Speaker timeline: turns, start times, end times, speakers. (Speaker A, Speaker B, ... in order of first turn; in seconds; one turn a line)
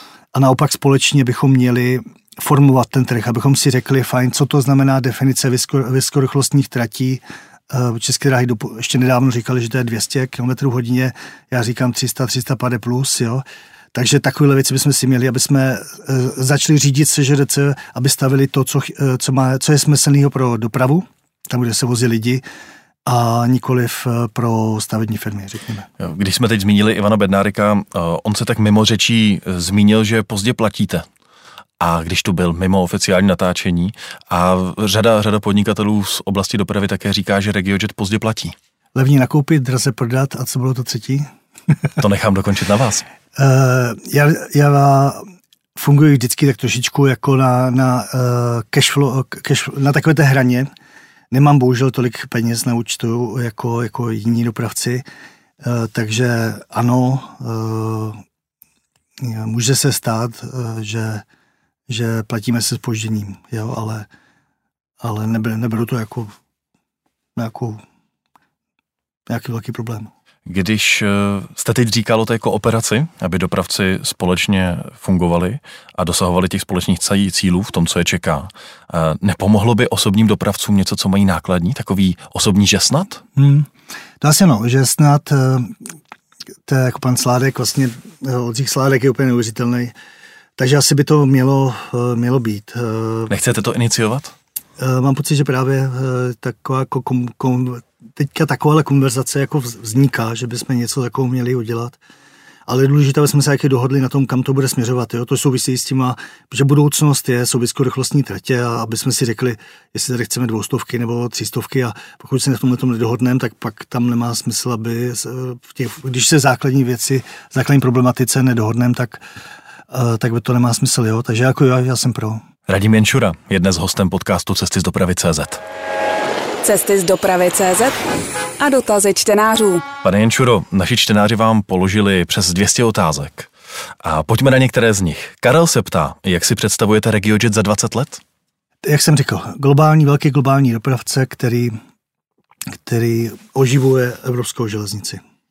Speaker A: 0.3-22.4
Speaker A: 23.1-25.9
Speaker B: 26.0-31.1
Speaker B: 31.8-38.5
Speaker A: 39.0-41.3
Speaker B: 42.0-43.0
Speaker A: 43.4-50.7
Speaker A: 51.3-55.0
Speaker A: 55.6-58.2
Speaker A: 59.2-61.2
Speaker A: 61.9-64.1
Speaker A: 65.0-66.3
Speaker A: 67.4-67.8
Speaker A: 69.3-70.1
Speaker B: 70.5-83.2
Speaker A: 83.4-83.7
Speaker A: 84.2-85.9
Speaker A: 86.7-89.9
Speaker A: 90.6-93.3
Speaker B: 93.3-94.3
Speaker A: 94.8-102.0
Speaker A: 102.7-119.2
Speaker A: 119.9-122.4
Speaker B: 122.7-125.6
Speaker C: 126.6-128.0
Speaker C: 128.6-129.9
Speaker B: 130.0-133.5
Speaker B: 134.0-138.2
Speaker A: 138.8-141.8
Speaker A: 142.8-145.2